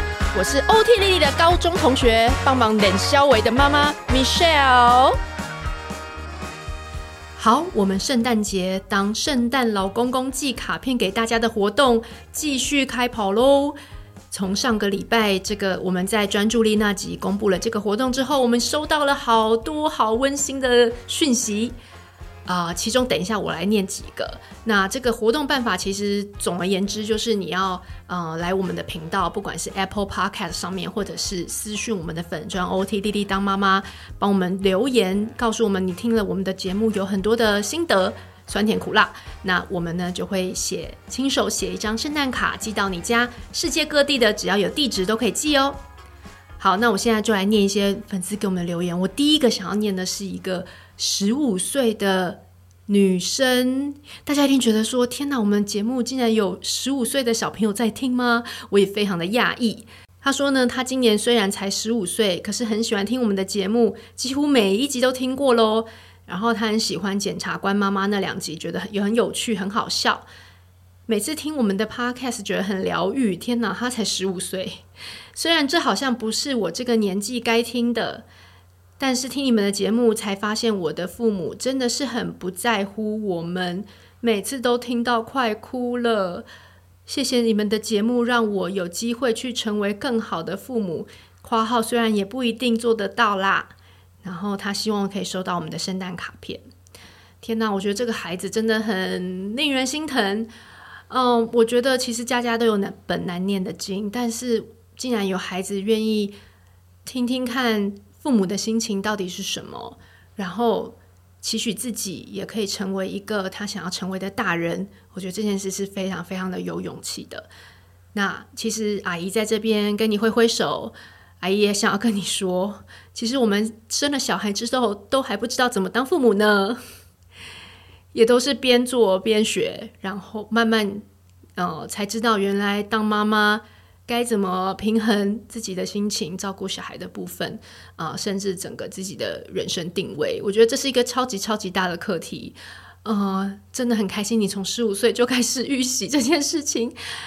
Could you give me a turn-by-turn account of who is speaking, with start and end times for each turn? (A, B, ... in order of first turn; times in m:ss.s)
0:00.3-0:05.1 A
0:07.4-0:13.8 A
0:14.3-0:21.8 A
0:22.4-0:45.8 A
0:46.6-1:10.3 A
1:11.1-1:14.8 A
1:15.3-1:18.2 A
1:19.0-1:26.4 A
1:27.0-1:33.7 A
1:34.2-1:36.6 A
1:37.4-1:40.5 A
1:41.1-1:46.4 A
1:47.0-1:57.5 A
1:58.1-2:06.8 A
2:08.1-2:27.0 A